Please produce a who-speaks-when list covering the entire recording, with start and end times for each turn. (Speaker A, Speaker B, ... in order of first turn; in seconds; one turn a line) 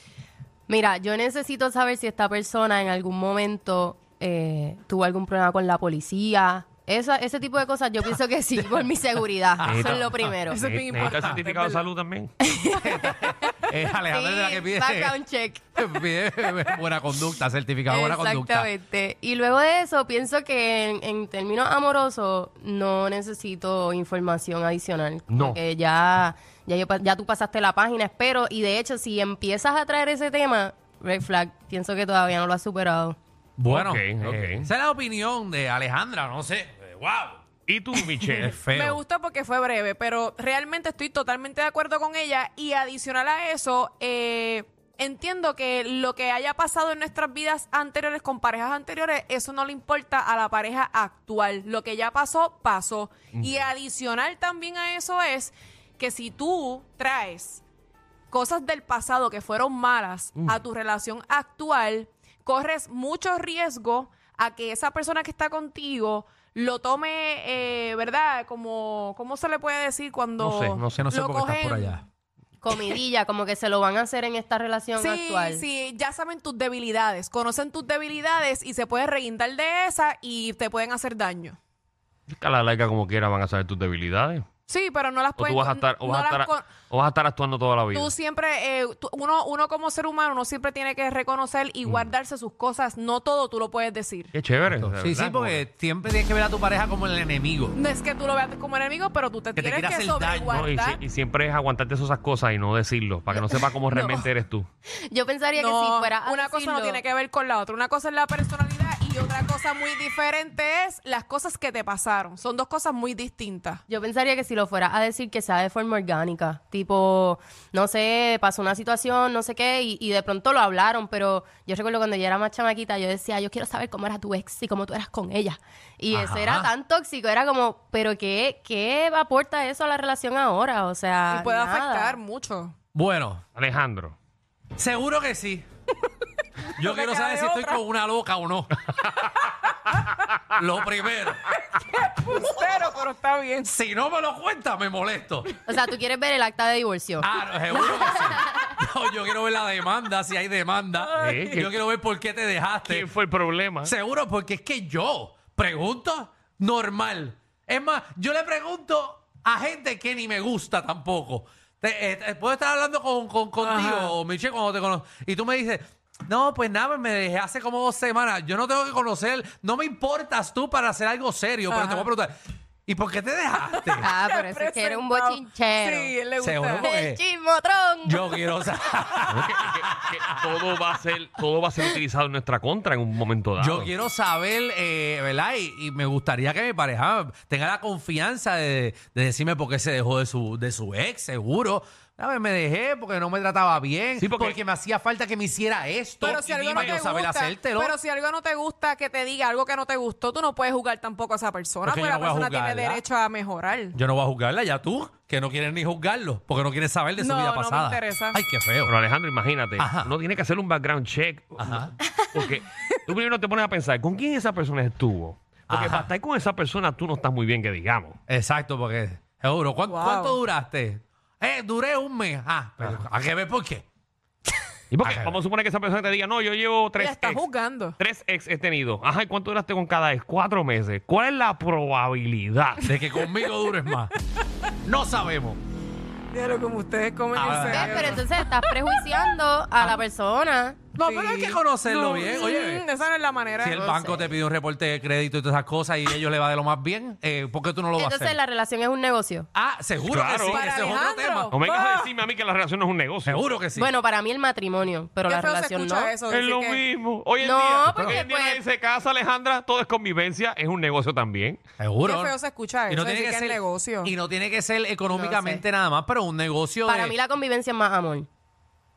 Speaker A: 0.7-10.6
Speaker B: 9.6-10.4
Speaker C: 9.6-12.3
Speaker D: 10.4-11.8
Speaker B: 11.0-11.4
Speaker A: 12.4-16.0
Speaker B: 12.7-15.2
Speaker B: 15.7-18.7
Speaker A: 17.9-33.2
Speaker C: 25.3-25.6
Speaker B: 33.6-37.4
Speaker C: 33.7-34.7
Speaker C: 37.7-38.5
Speaker D: 38.3-57.6
Speaker B: 38.4-39.0
Speaker D: 58.3-72.0
Speaker C: 70.4-71.0
Speaker B: 70.9-72.0
Speaker A: 72.6-75.6
Speaker D: 75.0-81.6
Speaker C: 82.3-84.5
Speaker D: 84.7-86.7
Speaker C: 85.4-88.1
Speaker D: 87.9-94.3
Speaker C: 94.3-95.6
Speaker B: 94.7-97.8
Speaker D: 97.7-101.0
Speaker B: 99.5-100.7
Speaker C: 100.5-104.7
Speaker D: 103.9-104.2
Speaker A: 105.1-107.0
Speaker D: 105.5-113.8
Speaker A: 113.9-132.2
Speaker B: 126.1-126.7
Speaker D: 131.3-132.7
Speaker B: 132.9-133.4
Speaker C: 133.6-134.2
Speaker B: 134.8-135.7
Speaker D: 136.7-137.8
Speaker B: 136.8-138.8
Speaker D: 139.4-140.1
Speaker B: 140.5-141.4
Speaker D: 141.7-143.7
Speaker B: 143.6-145.5
Speaker A: 145.7-147.3
Speaker B: 147.2-153.1
Speaker A: 147.9-148.4
Speaker D: 151.0-151.6
Speaker C: 151.2-151.7
Speaker C: 152.8-153.9
Speaker B: 153.8-172.3
Speaker D: 163.6-164.1
Speaker D: 171.7-172.1
Speaker B: 172.9-174.1
Speaker D: 173.8-176.9
Speaker A: 174.0-176.1
Speaker B: 176.4-177.2
Speaker A: 176.8-178.4
Speaker B: 178.0-180.8
Speaker C: 179.3-183.9
Speaker B: 183.6-198.0
Speaker C: 194.2-194.6
Speaker C: 196.2-197.0
Speaker D: 196.2-204.0
Speaker B: 201.8-203.0
Speaker B: 203.9-208.9
Speaker D: 207.2-208.4
Speaker C: 208.8-218.2
Speaker B: 209.8-210.1
Speaker B: 211.6-211.9
Speaker B: 215.7-216.1
Speaker B: 218.3-223.8
Speaker D: 219.9-220.4
Speaker C: 224.9-227.5
Speaker B: 225.0-225.4
Speaker D: 227.0-228.0
Speaker C: 228.0-232.9
Speaker B: 232.8-234.1
Speaker D: 233.2-233.5
Speaker B: 234.8-235.6
Speaker D: 236.3-239.0
Speaker B: 237.3-238.2
Speaker A: 237.6-240.8
Speaker D: 240.9-244.1
Speaker B: 241.0-242.8
Speaker B: 243.6-248.4
Speaker A: 248.0-249.5
Speaker B: 249.5-251.5
Speaker C: 250.0-250.6
Speaker D: 250.4-252.1
Speaker C: 251.5-253.5
Speaker B: 253.2-253.9
Speaker A: 253.7-256.1
Speaker D: 255.2-256.8
Speaker C: 256.3-261.6
Speaker A: 257.4-258.6
Speaker B: 257.9-258.2
Speaker B: 261.8-262.4
Speaker D: 262.0-264.1
Speaker B: 262.9-267.1
Speaker A: 265.1-265.6
Speaker A: 266.8-268.3